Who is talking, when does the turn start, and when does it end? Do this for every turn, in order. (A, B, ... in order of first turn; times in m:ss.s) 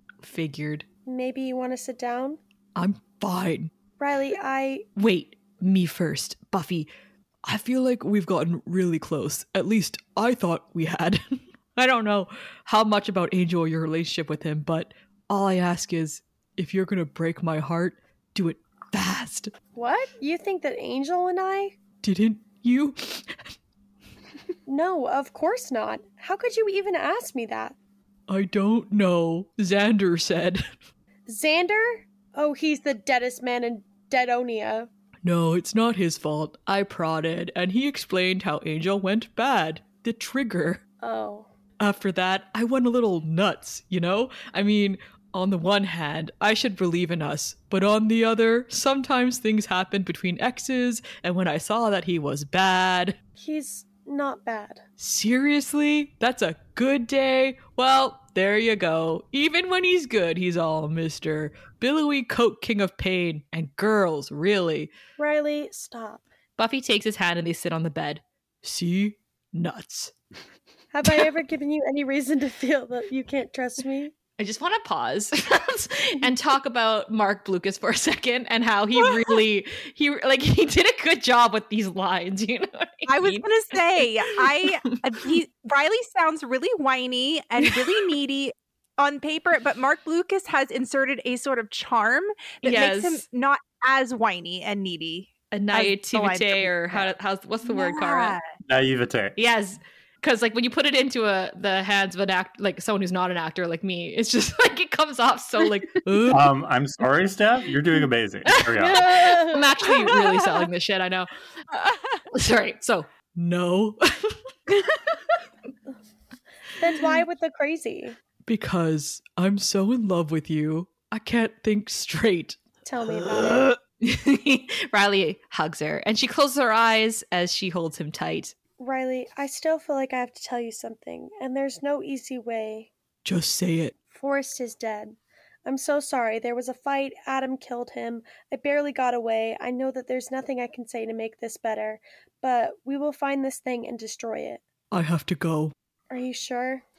0:00.2-0:00.8 A
0:01.0-0:02.4 B
0:02.8-0:03.7 A
0:04.0-0:04.9 B
0:05.0-0:06.9 A
0:07.4-0:19.5 A
0:19.7-0:21.8 B
0:22.0-0:23.5 A
0:24.7-0:27.7 B
0:28.3-0:30.7 A
0:31.3-0:34.9 B
0:35.2-0:40.8 A
0:41.0-0:41.5 B
0:41.8-0:53.2 A
0:53.4-0:54.8 B
0:55.0-1:04.9 A
1:05.2-1:06.2 B
1:06.6-1:08.2 C
1:08.6-1:10.1 A
1:10.9-1:14.1 B
1:14.4-1:23.5 C
1:23.1-1:37.1 D
1:32.6-1:33.2 C
1:35.5-1:38.4 C
1:37.6-1:38.4 D
1:38.7-1:39.4 E
1:39.4-1:46.0 C
1:46.0-1:46.5 A
1:46.3-1:49.3 E
1:48.7-1:49.9 B
1:48.9-1:51.3 C
1:52.3-1:53.1 C
1:53.3-1:54.4 A
1:56.8-1:58.2 B
1:58.4-2:02.6 A
2:02.8-2:03.7 B
2:04.0-2:08.5 C
2:08.8-2:12.9 B
2:13.2-2:13.9 A
2:14.1-2:24.6 B
2:24.9-2:25.7 A
2:26.1-2:26.8 B